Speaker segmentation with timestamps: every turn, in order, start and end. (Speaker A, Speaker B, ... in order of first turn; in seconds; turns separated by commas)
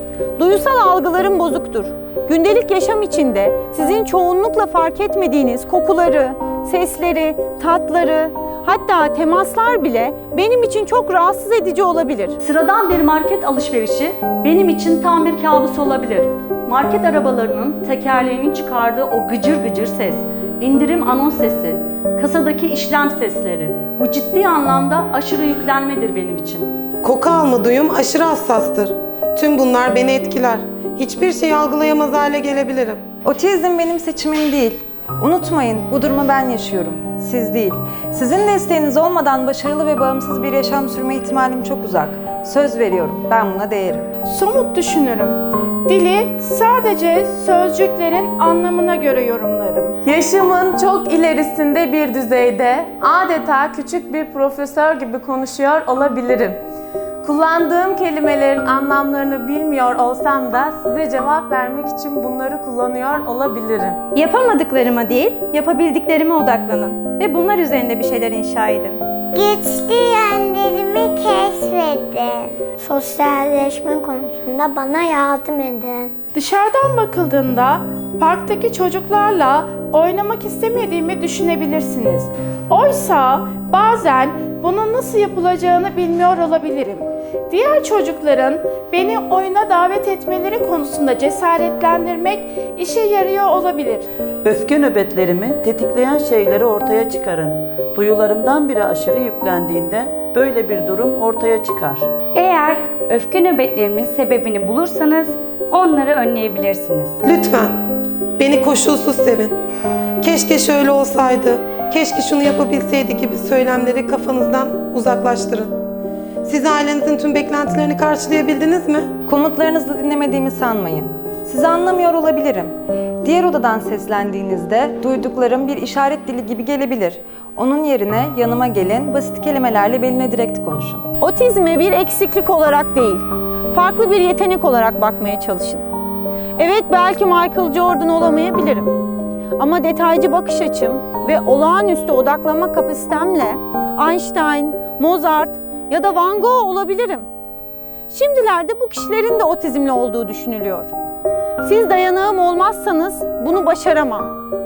Speaker A: 0.4-12.4, Speaker B: 12.4-26.7, Speaker C: 27.0-33.0, Speaker D: 33.2-44.0, Speaker E: 44.3-50.0, Speaker F: 50.0-56.6, Speaker F: 57.2-64.0, Speaker G: 64.1-69.0, Speaker H: 69.3-76.1, Speaker E: 76.3-94.1, Speaker I: 94.4-102.1, Speaker J: 102.3-107.2, Speaker C: 107.2-107.7, Speaker C: 108.4-109.5, Speaker C: 110.2-115.7, Speaker C: 116.4-119.1, Speaker D: 119.2-131.1, Speaker A: 131.2-135.8, Speaker A: 136.6-138.9, Speaker A: 139.6-147.3, Speaker A: 148.1-150.9, Speaker A: 151.6-154.4